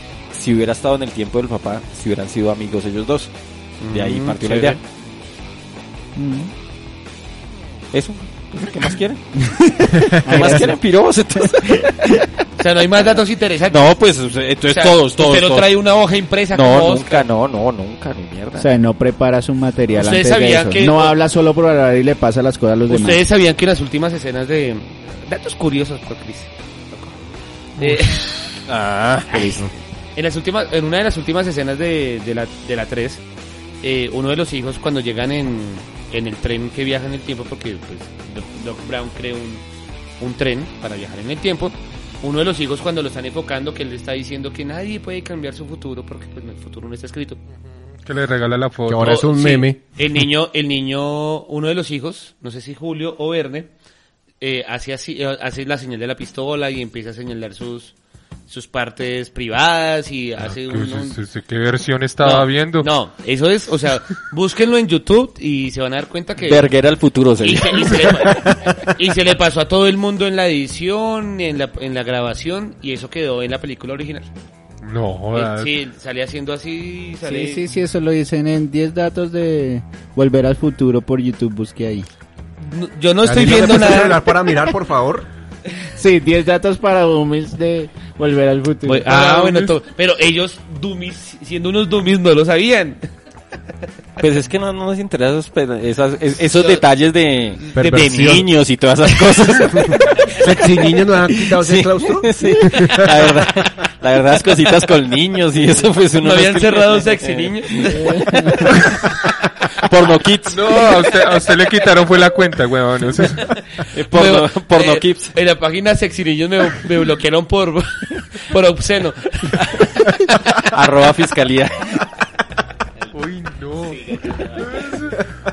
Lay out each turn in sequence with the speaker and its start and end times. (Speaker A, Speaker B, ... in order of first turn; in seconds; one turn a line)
Speaker A: 0.3-3.3
Speaker B: 3.8-4.8
Speaker A: 3.9-4.8
Speaker C: 6.2-6.5
Speaker A: 7.9-9.4
Speaker C: 9.4-10.8
Speaker D: 9.9-10.6
Speaker A: 10.1-12.2
Speaker C: 11.4-12.2
Speaker B: 12.6-13.9
Speaker A: 13.7-15.8
Speaker B: 14.7-17.3
Speaker A: 16.5-18.7
Speaker C: 18.6-23.2
Speaker B: 19.9-21.2
Speaker B: 22.9-27.1
Speaker B: 27.8-28.5
Speaker A: 28.6-29.6
Speaker C: 29.3-29.6
Speaker B: 30.2-33.2
Speaker B: 33.8-39.6
Speaker B: 40.2-47.4
Speaker E: 48.0-49.2
Speaker D: 48.9-49.8
Speaker B: 49.0-53.7
Speaker B: 54.4-57.9
Speaker B: 58.5-61.2
Speaker E: 60.5-62.9
Speaker B: 62.2-66.7
Speaker A: 66.4-68.5
Speaker B: 67.4-74.3
Speaker E: 74.8-75.8
Speaker B: 75.3-77.7
Speaker C: 77.2-82.1
Speaker B: 82.6-84.4
Speaker D: 83.2-85.3
Speaker C: 85.9-89.1
Speaker B: 88.9-93.0
Speaker E: 89.1-89.7
Speaker A: 94.2-100.5
Speaker B: 96.5-96.8
Speaker B: 97.6-98.4
Speaker D: 97.8-98.5
Speaker D: 99.8-103.5
Speaker A: 101.3-111.1
Speaker B: 106.2-108.3
Speaker C: 107.9-108.8
Speaker E: 110.5-113.6
Speaker A: 113.9-115.4
Speaker B: 114.1-120.7
Speaker A: 120.5-122.1
Speaker E: 123.1-125.2
Speaker B: 124.1-124.7